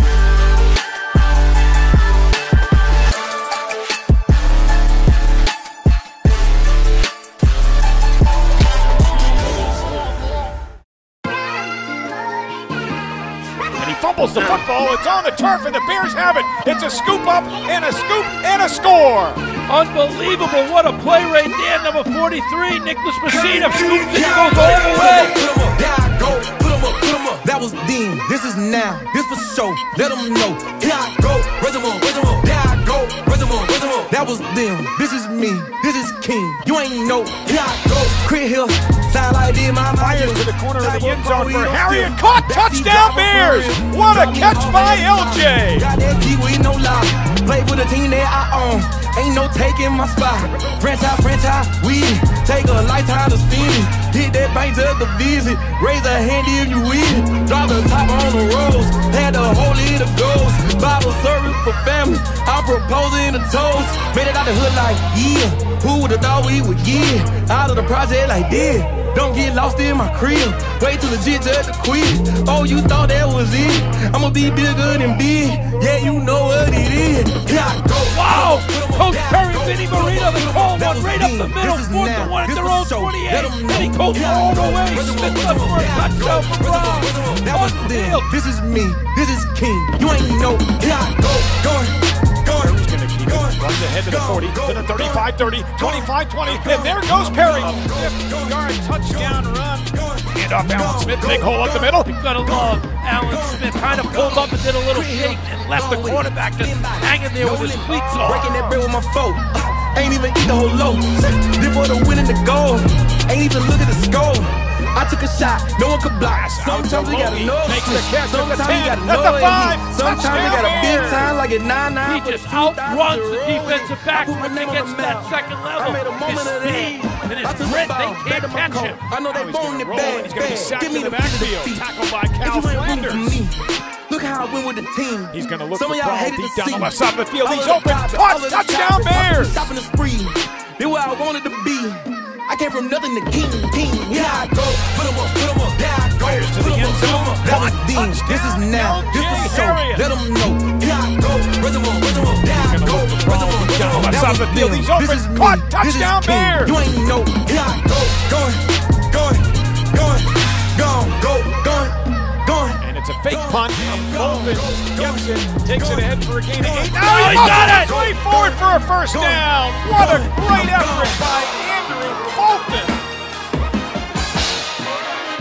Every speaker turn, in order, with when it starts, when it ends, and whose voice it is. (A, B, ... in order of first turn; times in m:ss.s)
0:13.8-0:19.4 A
0:19.7-0:25.4 B
0:23.3-1:32.7 C
0:40.0-0:45.9 A
1:18.0-1:28.3 B
1:32.5-1:42.1 A
1:33.3-1:38.6 C
1:39.1-2:11.9 C
1:42.0-1:48.8 B
1:56.2-2:01.3 A
2:02.0-2:09.0 B
2:09.3-2:13.4 A
2:12.4-2:51.3 C
2:15.3-2:19.7 A
2:26.2-2:30.1 A
2:32.4-2:36.8 A
2:42.8-2:53.0 A
2:47.0-2:47.9 B